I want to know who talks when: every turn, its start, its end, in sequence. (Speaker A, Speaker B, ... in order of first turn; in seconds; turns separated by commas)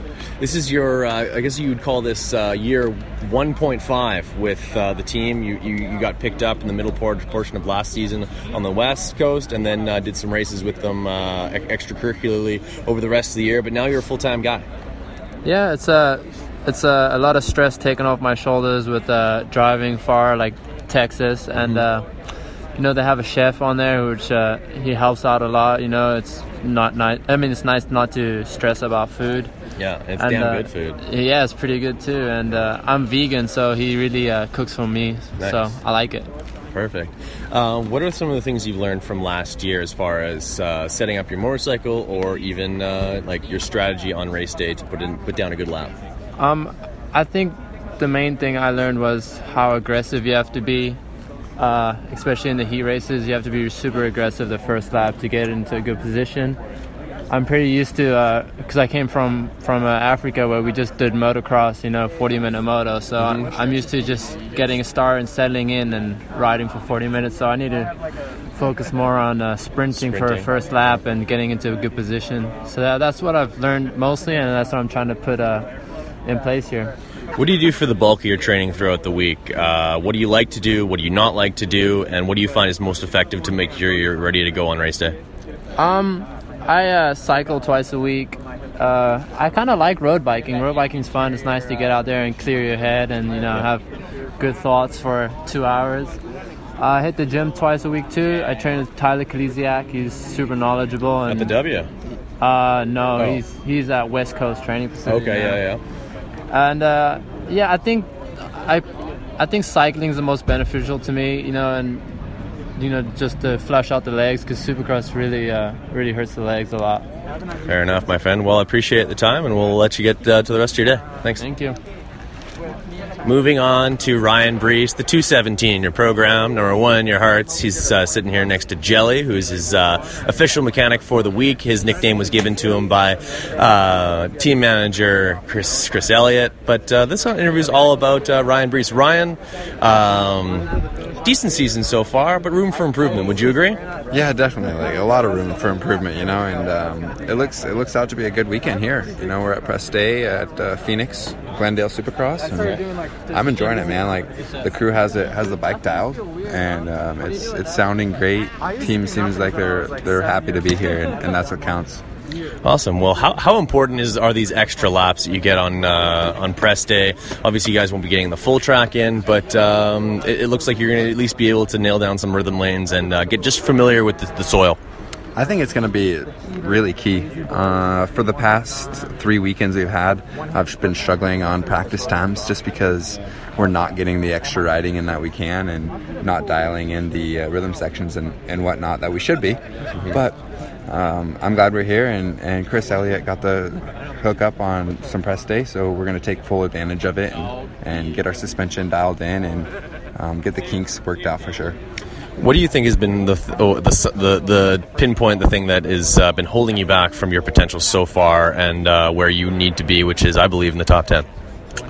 Speaker A: 0.4-14.7, Speaker B: 15.4-22.1, Speaker A: 21.5-21.9, Speaker B: 22.7-29.5, Speaker A: 29.8-31.0, Speaker B: 30.2-36.3, Speaker A: 35.4-35.6, Speaker A: 36.7-45.9, Speaker B: 46.4-51.0, Speaker B: 51.5-56.6, Speaker B: 57.3-67.9, Speaker A: 63.2-63.5, Speaker B: 68.5-75.7, Speaker A: 69.9-70.5, Speaker B: 76.2-76.9, Speaker A: 77.3-85.2, Speaker B: 85.8-93.8, Speaker B: 94.4-96.2, Speaker B: 96.8-101.6, Speaker A: 101.2-101.9, Speaker B: 102.4-105.7, Speaker A: 103.2-103.4, Speaker A: 105.0-105.8, Speaker B: 106.5-108.8, Speaker B: 109.4-112.1, Speaker B: 112.8-117.1, Speaker A: 117.7-121.4, Speaker B: 121.4-121.8, Speaker A: 123.2-140.7, Speaker A: 141.2-143.8, Speaker C: 144.1-152.8, Speaker C: 153.3-162.0, Speaker A: 162.6-174.8, Speaker C: 175.3-201.8, Speaker A: 202.4-211.2